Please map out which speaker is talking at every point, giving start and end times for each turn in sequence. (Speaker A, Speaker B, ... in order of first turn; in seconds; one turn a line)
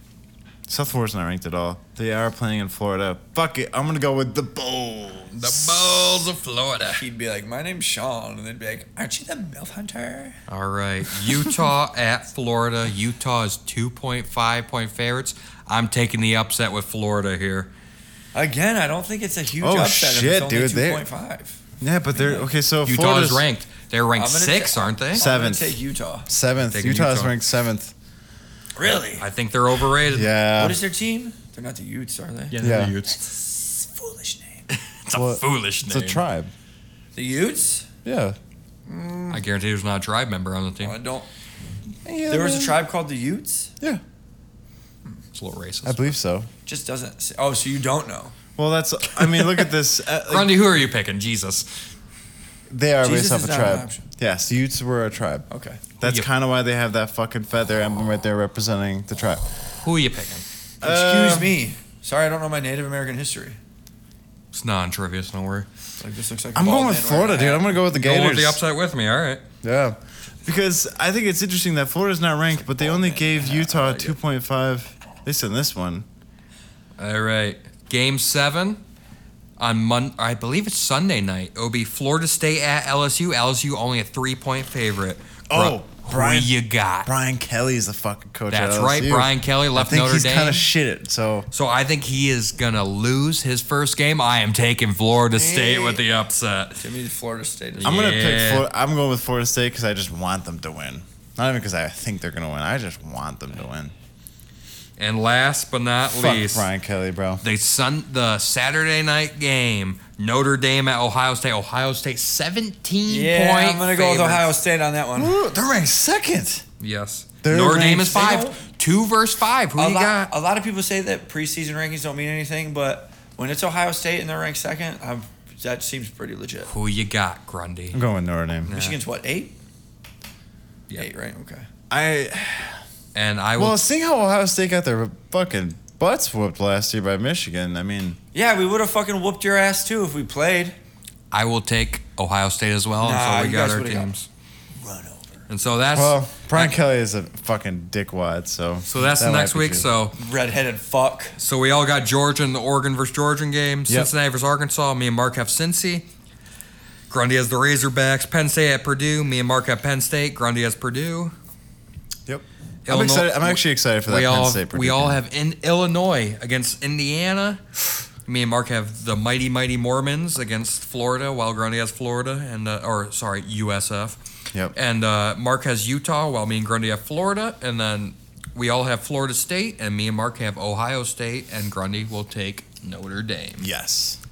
Speaker A: 0.7-6.1
Speaker B: 5.3-7.0
Speaker C: 6.9-10.4
Speaker B: 10.5-17.7
Speaker C: 18.3-21.6
Speaker A: 19.6-21.1
Speaker A: 21.8-23.4
Speaker C: 22.1-22.5
Speaker B: 22.8-25.2
Speaker C: 24.1-26.3
Speaker A: 25.1-27.9
Speaker B: 26.7-27.4
Speaker C: 28.8-29.2
Speaker B: 29.2-30.3
Speaker A: 30.1-30.8
Speaker C: 30.5-32.6
Speaker B: 32.5-33.4
Speaker A: 32.6-33.0
Speaker C: 33.4-34.6
Speaker B: 34.7-36.2
Speaker A: 35.1-36.5
Speaker C: 37.1-37.9
Speaker A: 38.0-38.4
Speaker C: 38.9-39.4
Speaker B: 39.3-41.0
Speaker C: 40.8-41.3
Speaker A: 42.0-42.8
Speaker C: 42.3-43.7
Speaker B: 45.3-46.1
Speaker A: 45.8-46.5
Speaker C: 46.6-48.3
Speaker A: 48.5-50.6
Speaker B: 49.1-49.7
Speaker B: 50.3-51.7
Speaker A: 52.7-55.5
Speaker C: 53.0-54.1
Speaker C: 55.5-55.8
Speaker A: 56.0-59.5
Speaker B: 56.0-56.3
Speaker B: 59.7-60.4
Speaker A: 60.8-61.5
Speaker C: 60.8-63.6
Speaker B: 64.5-65.7
Speaker C: 66.0-67.7
Speaker A: 66.5-68.6
Speaker B: 67.8-69.4
Speaker A: 69.6-76.0
Speaker C: 72.5-74.2
Speaker B: 77.0-78.8
Speaker B: 79.6-87.1
Speaker A: 85.5-91.5
Speaker B: 88.5-90.6
Speaker B: 91.5-96.9
Speaker C: 95.3-96.0
Speaker C: 96.8-98.0
Speaker B: 97.8-98.7
Speaker A: 97.8-103.9
Speaker B: 105.0-106.7
Speaker A: 106.1-107.4
Speaker B: 107.4-114.5
Speaker C: 113.0-115.4
Speaker A: 115.2-116.6
Speaker B: 116.8-120.3
Speaker A: 117.4-118.2
Speaker C: 118.1-118.7
Speaker C: 119.8-126.7
Speaker B: 126.7-128.0
Speaker A: 127.9-128.7
Speaker B: 128.7-129.0
Speaker C: 128.7-129.6
Speaker C: 130.9-131.7
Speaker A: 131.9-132.8
Speaker B: 133.1-133.8
Speaker A: 133.6-138.2
Speaker C: 138.3-140.8
Speaker B: 141.3-144.3
Speaker C: 143.0-144.1
Speaker C: 144.7-145.4
Speaker B: 145.5-146.8
Speaker A: 145.9-149.9
Speaker B: 148.9-150.2
Speaker C: 150.2-151.3
Speaker B: 151.4-156.1
Speaker B: 157.1-161.3
Speaker A: 162.3-165.2
Speaker B: 162.8-174.2
Speaker B: 174.7-183.7
Speaker A: 183.6-184.2